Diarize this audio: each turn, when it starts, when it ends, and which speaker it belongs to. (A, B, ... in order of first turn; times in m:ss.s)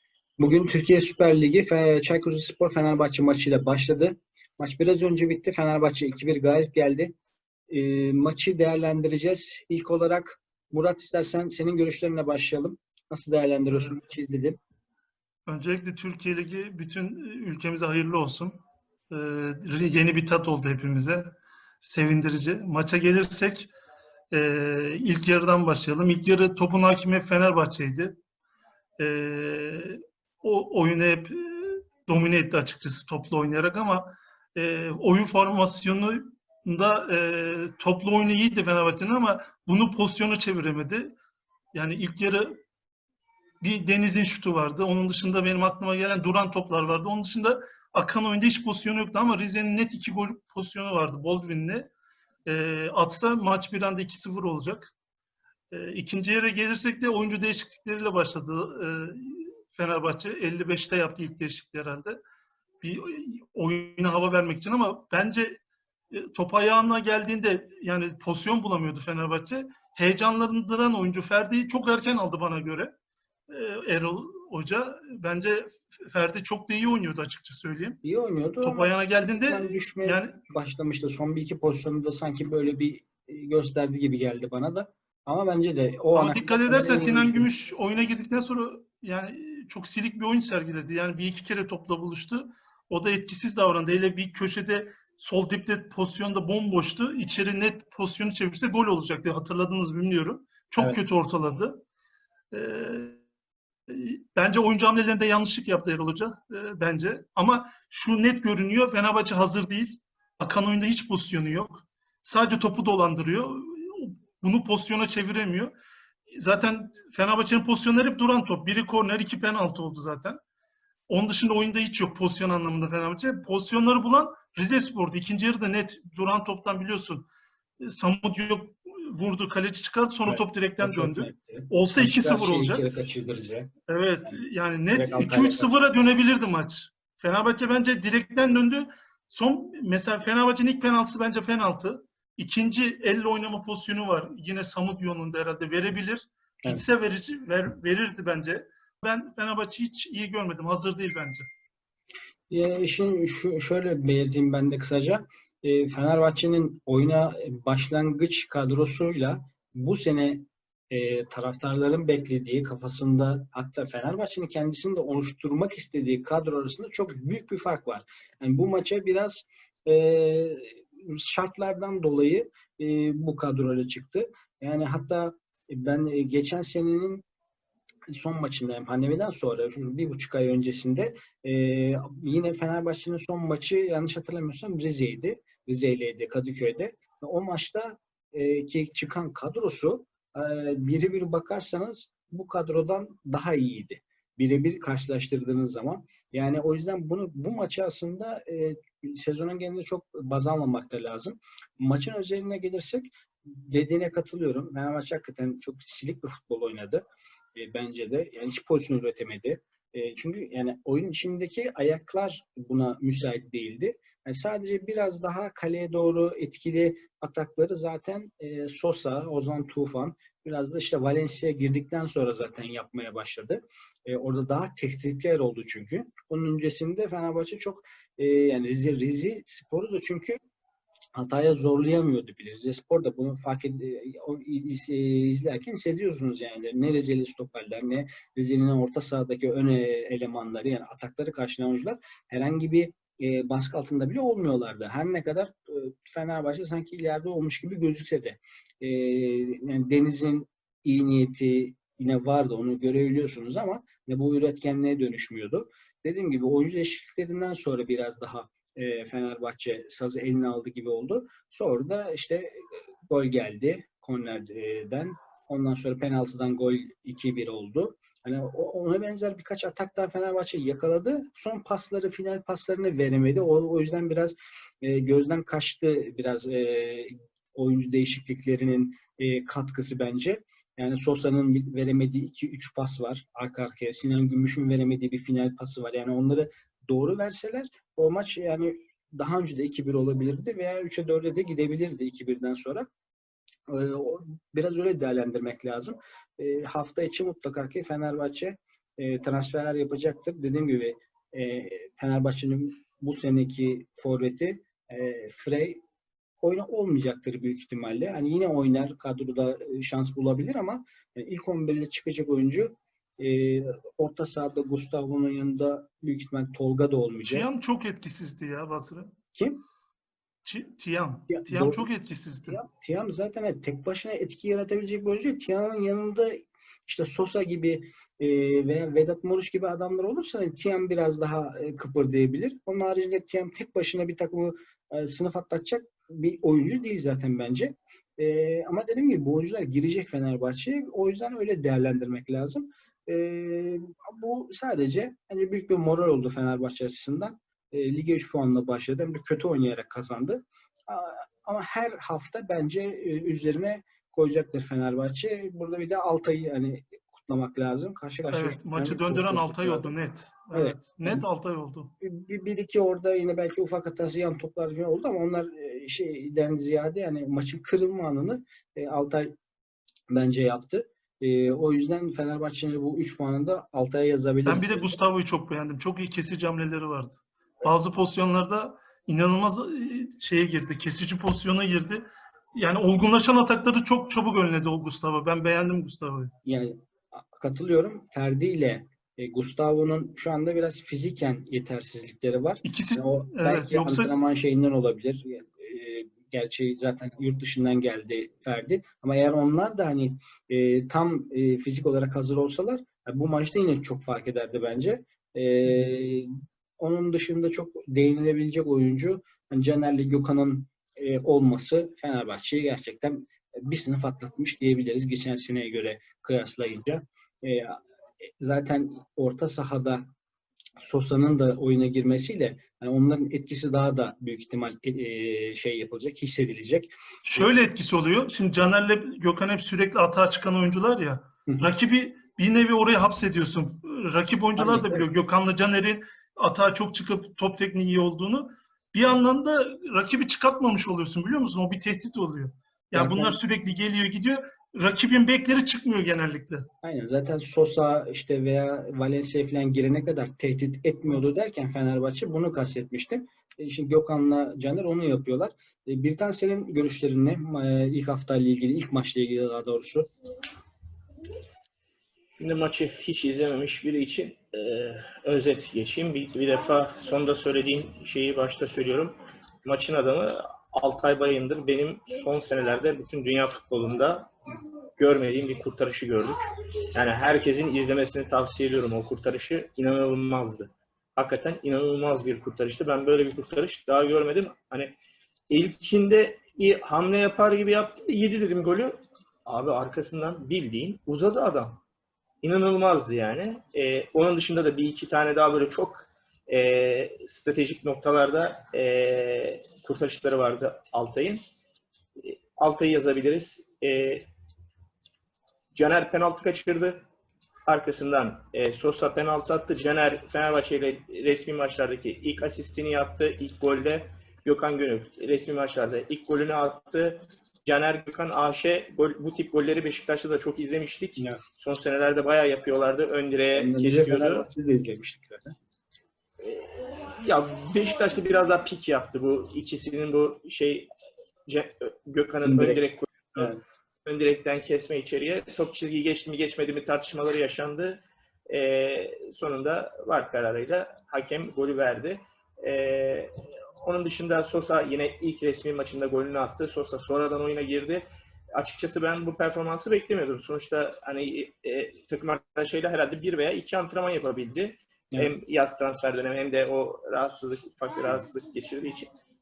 0:00.4-0:07.1 A
0:07.7-0:14.6 A
0:13.7-0:14.0 B
0:15.5-0:18.6 B
0:19.1-0:23.7 B
0:24.3-0:28.1 B
0:29.0-0:41.1 B
0:41.7-0:42.6 B
0:43.6-0:51.9 B
0:52.4-0:54.9 B
0:55.7-1:02.2 B
1:02.8-1:05.6 B
1:06.1-1:12.9 B
1:13.5-1:18.0 B
1:18.0-1:27.5 A
1:18.6-1:20.4 B
1:26.1-1:41.8 B
1:42.5-1:43.2 B
1:43.9-1:55.7 B
1:56.3-2:00.4 B
2:01.1-2:07.2 B
2:07.8-2:12.8 B
2:10.3-2:13.7 A
2:13.9-2:31.5 B
2:14.9-2:15.7 A
2:32.5-2:57.2 A
2:58.1-3:27.0 A
3:27.5-3:50.4 A
3:51.2-4:52.8 A
4:53.7-5:05.8 A
5:06.4-5:17.5 A
5:17.2-5:19.1 B
5:19.3-5:19.6 A
5:20.4-5:22.6 B
5:21.3-5:21.9 A
5:22.5-5:59.9 A
5:58.3-6:01.9 B
6:00.5-6:01.2 A
6:02.0-6:09.3 A
6:10.1-6:15.0 A
6:14.4-6:22.0 B
6:22.5-6:26.3 B
6:26.4-7:00.0 A
6:32.6-6:34.1 B
7:00.8-7:07.4 A
7:07.2-7:26.7 B
7:14.6-7:15.1 A
7:22.9-7:23.4 A
7:26.8-7:40.1 A
7:42.4-7:54.3 C
7:55.0-8:05.0 C
8:05.5-8:11.8 C
8:12.4-8:21.4 C
8:22.2-8:24.3 C
8:25.7-8:27.0 C
8:27.7-8:44.5 C
8:43.5-8:45.5 A
8:46.4-8:50.9 C
8:51.4-8:53.5 C
8:52.4-8:53.6 A
8:54.0-9:19.1 C